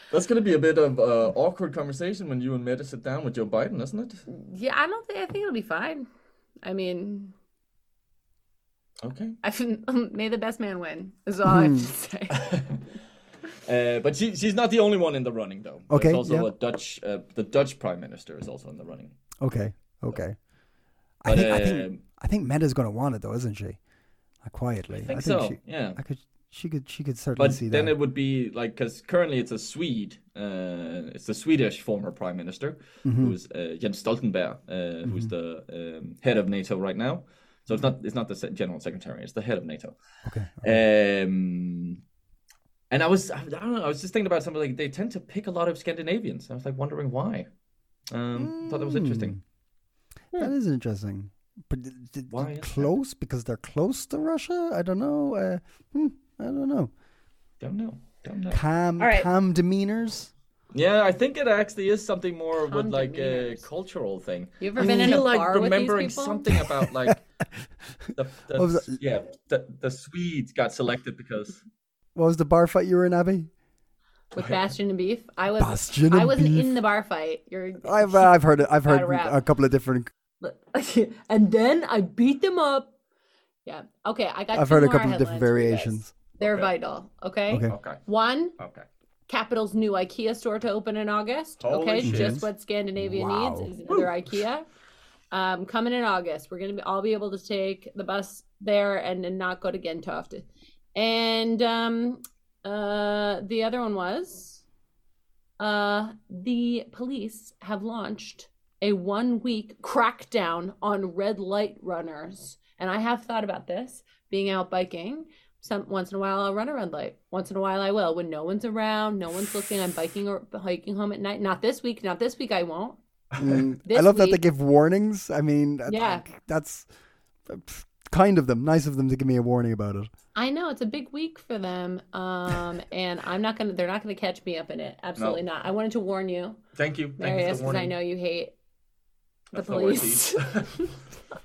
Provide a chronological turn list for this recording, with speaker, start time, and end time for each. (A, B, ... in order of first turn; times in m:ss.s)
0:00.1-0:04.2 A
0:04.3-0:06.0 B
0:06.6-0:07.3 B
0:09.0-0:09.4 A
0:09.4-0:12.5 B
0:11.4-0:11.9 C
0:12.3-0:12.8 A
0:13.6-0:19.1 A
0:15.9-0:16.5 C
0:19.4-0:20.4 C
0:21.2-0:23.8 C
0:21.3-0:22.0 A
0:24.4-0:27.9 C
0:24.9-0:26.0 A
0:27.4-0:40.0 A
0:33.0-0:33.4 C
0:35.0-0:35.3 C
0:40.2-0:40.8 C
0:40.6-0:42.0 A
0:42.9-0:47.5 A
0:48.1-0:49.4 A
0:48.4-0:49.4 C
0:50.3-0:56.9 C
0:52.3-0:52.9 A
0:57.6-0:58.6 A
0:58.5-1:00.3 C
0:59.0-0:59.3 B
1:00.7-1:07.2 A
1:02.6-1:03.6 B
1:04.6-1:06.6 B
1:04.8-1:05.2 C
1:06.5-1:07.6 C
1:08.1-1:11.6 A
1:08.6-1:09.0 C
1:12.2-1:13.5 C
1:14.3-1:19.4 B
1:15.6-1:16.8 C
1:17.8-1:20.1 C
1:20.4-1:22.9 B
1:23.6-1:28.5 B
1:24.5-1:26.1 C
1:26.4-1:26.7 A
1:27.5-1:27.8 C
1:27.7-1:28.0 A
1:28.6-1:28.9 A
1:29.3-1:34.6 B
1:31.6-1:32.4 A
1:32.0-1:32.4 C
1:33.0-1:34.1 C
1:35.3-1:44.6 B
1:45.6-2:03.0 B
2:03.4-2:06.9 C
2:03.8-2:04.4 B
2:05.9-2:06.2 B
2:07.5-2:10.1 C
2:10.3-2:16.6 B
2:16.8-2:17.9 A
2:17.2-2:18.5 B
2:19.5-2:20.8 A
2:19.5-2:21.0 B